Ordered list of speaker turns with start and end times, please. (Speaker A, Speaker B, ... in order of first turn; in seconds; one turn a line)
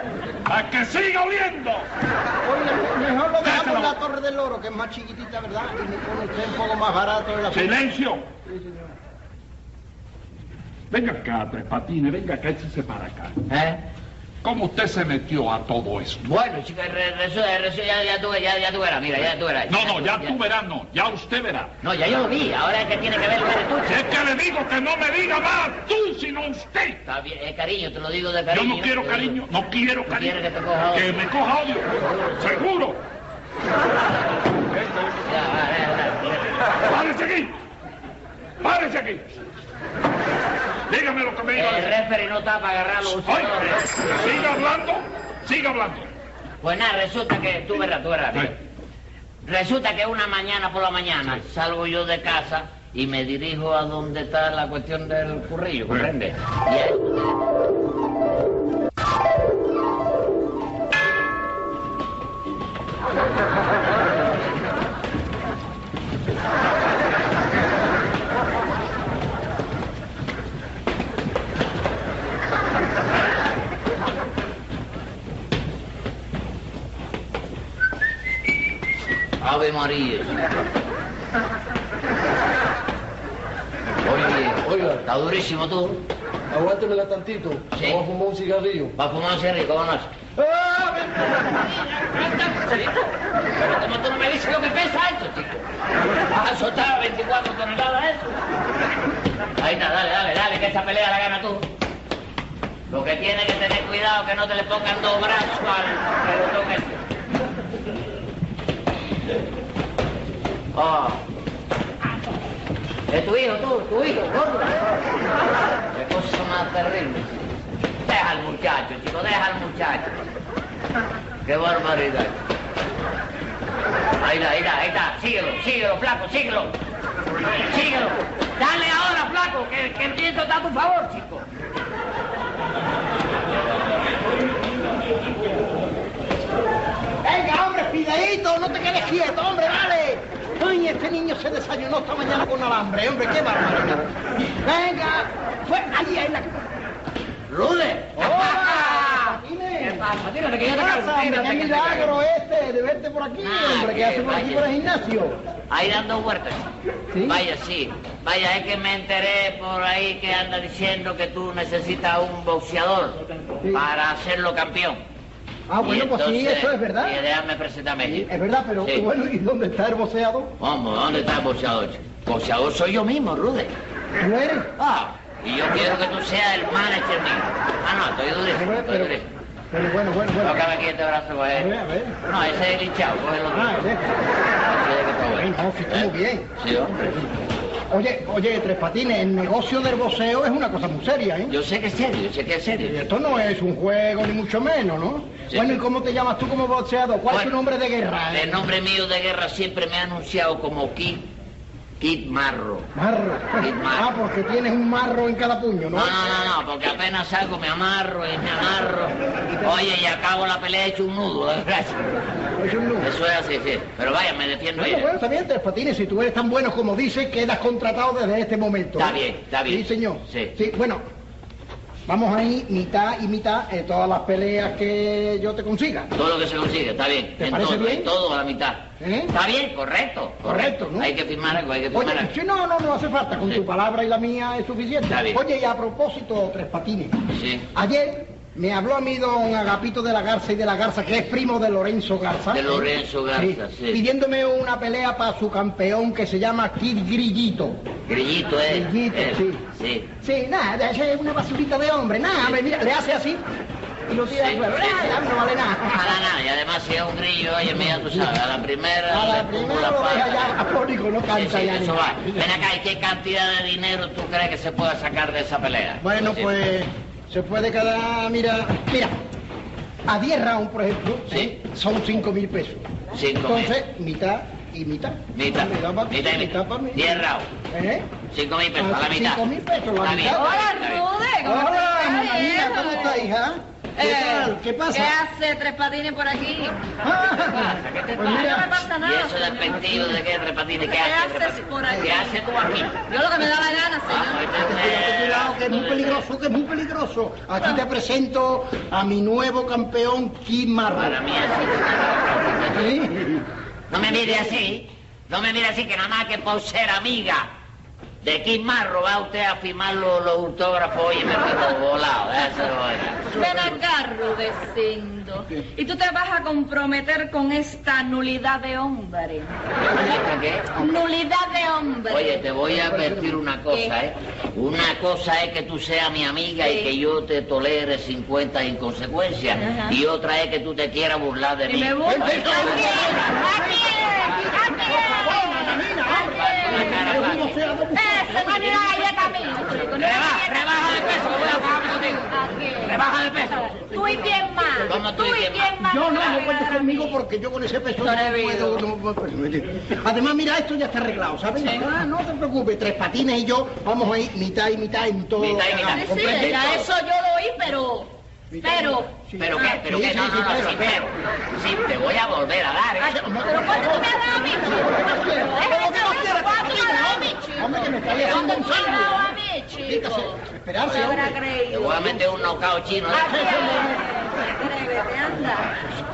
Speaker A: 0.5-1.9
Speaker B: 2.4-7.8
Speaker A: 3.4-3.9
Speaker A: 7.5-8.3
Speaker B: 8.5-8.8
Speaker A: 10.9-13.4
Speaker C: 13.5-13.8
Speaker A: 14.4-16.2
Speaker C: 16.2-20.4
Speaker A: 19.7-21.7
Speaker C: 21.8-24.2
Speaker A: 23.9-27.0
Speaker C: 27.1-29.4
Speaker A: 28.5-30.4
Speaker C: 30.1-31.2
Speaker A: 30.9-33.0
Speaker C: 32.0-32.6
Speaker A: 34.7-35.2
Speaker C: 35.2-36.7
Speaker A: 36.8-37.5
Speaker A: 38.6-39.3
Speaker A: 40.9-42.0
Speaker C: 41.5-44.3
Speaker A: 43.1-46.1
Speaker C: 46.6-48.6
Speaker C: 49.4-57.3
Speaker C: 79.4-80.4
Speaker C: 84.0-86.0
Speaker D: 86.5-88.9
Speaker C: 87.7-88.0
Speaker C: 89.0-90.1
Speaker D: 90.4-91.5
Speaker C: 92.0-95.7
Speaker C: 96.3-98.4
Speaker C: 99.6-101.7
Speaker C: 102.9-107.0
Speaker C: 110.7-111.2
Speaker C: 113.1-114.9
Speaker C: 115.9-117.5
Speaker C: 118.0-120.2
Speaker C: 121.5-122.4
Speaker C: 124.2-126.8
Speaker C: 127.7-131.5
Speaker B: 137.2-146.6
Speaker C: 147.5-149.1
Speaker B: 148.2-150.1
Speaker C: 149.8-152.2
Speaker B: 150.7-155.4
Speaker C: 153.4-154.7
Speaker C: 155.7-156.7
Speaker B: 157.1-157.4
Speaker C: 157.2-165.0
Speaker B: 165.7-167.2
Speaker C: 165.8-168.3
Speaker B: 168.0-170.5
Speaker C: 168.8-169.1
Speaker C: 170.6-173.7
Speaker B: 174.2-174.7
Speaker C: 174.8-179.3
Speaker B: 178.5-179.2
Speaker B: 179.7-180.7
Speaker C: 180.4-181.7
Speaker B: 181.5-182.2
Speaker C: 182.2-183.9
Speaker B: 183.5-184.2
Speaker C: 184.6-187.3
Speaker B: 185.4-186.5
Speaker B: 187.9-191.5
Speaker C: 191.5-193.1
Speaker B: 192.8-198.6
Speaker C: 195.5-195.8
Speaker C: 198.3-201.3
Speaker C: 202.0-202.9
Speaker B: 202.9-206.4
Speaker C: 203.6-204.1
Speaker C: 205.9-212.2
Speaker B: 209.5-209.9
Speaker B: 212.6-213.1
Speaker C: 213.0-215.1
Speaker B: 214.8-221.0
Speaker C: 219.0-220.6
Speaker B: 222.1-226.1
Speaker C: 226.1-232.3
Speaker B: 227.4-228.1
Speaker B: 229.0-229.3
Speaker B: 230.4-231.1
Speaker B: 231.9-247.8
Speaker C: 235.1-235.4
Speaker C: 237.3-237.7
Speaker C: 242.5-244.0
Speaker C: 248.1-250.1
Speaker B: 248.7-249.7
Speaker B: 250.2-253.4
Speaker B: 254.1-256.3
Speaker C: 254.2-255.2
Speaker C: 255.9-260.5
Speaker B: 257.7-258.3
Speaker B: 259.1-262.6
Speaker C: 261.3-266.5
Speaker B: 266.0-269.1
Speaker B: 270.1-272.9
Speaker C: 273.1-273.8
Speaker B: 273.4-278.1
Speaker C: 275.3-277.5
Speaker C: 278.3-279.4
Speaker B: 278.8-280.6
Speaker C: 280.0-281.1
Speaker E: 280.3-283.3
Speaker B: 281.4-285.2
Speaker E: 284.0-286.8
Speaker B: 287.0-288.8
Speaker C: 287.5-293.0
Speaker E: 288.2-289.8
Speaker B: 289.7-290.2
Speaker E: 290.8-292.4
Speaker E: 293.1-294.5
Speaker C: 294.1-296.2
Speaker B: 294.6-301.2
Speaker C: 300.9-303.0
Speaker B: 302.7-303.4
Speaker C: 303.9-307.5
Speaker C: 308.2-313.4
Speaker E: 313.3-319.6
Speaker C: 319.8-320.7
Speaker E: 320.8-322.4
Speaker C: 322.1-333.4
Speaker B: 322.7-323.4
Speaker E: 326.6-326.9
Speaker E: 329.6-329.9
Speaker E: 331.7-337.1
Speaker B: 332.0-339.4
Speaker C: 336.3-337.6
Speaker E: 337.9-341.6
Speaker C: 340.0-343.8
Speaker E: 342.3-343.0
Speaker E: 343.7-347.1
Speaker B: 343.9-344.5
Speaker C: 344.8-345.8
Speaker B: 345.8-356.6
Speaker E: 348.0-348.8
Speaker C: 355.4-356.9
Speaker E: 355.9-359.7
Speaker B: 358.5-361.0
Speaker C: 359.4-363.2
Speaker B: 363.0-371.4
Speaker E: 363.1-372.2
Speaker C: 371.7-373.7
Speaker E: 373.1-375.7
Speaker B: 373.2-374.0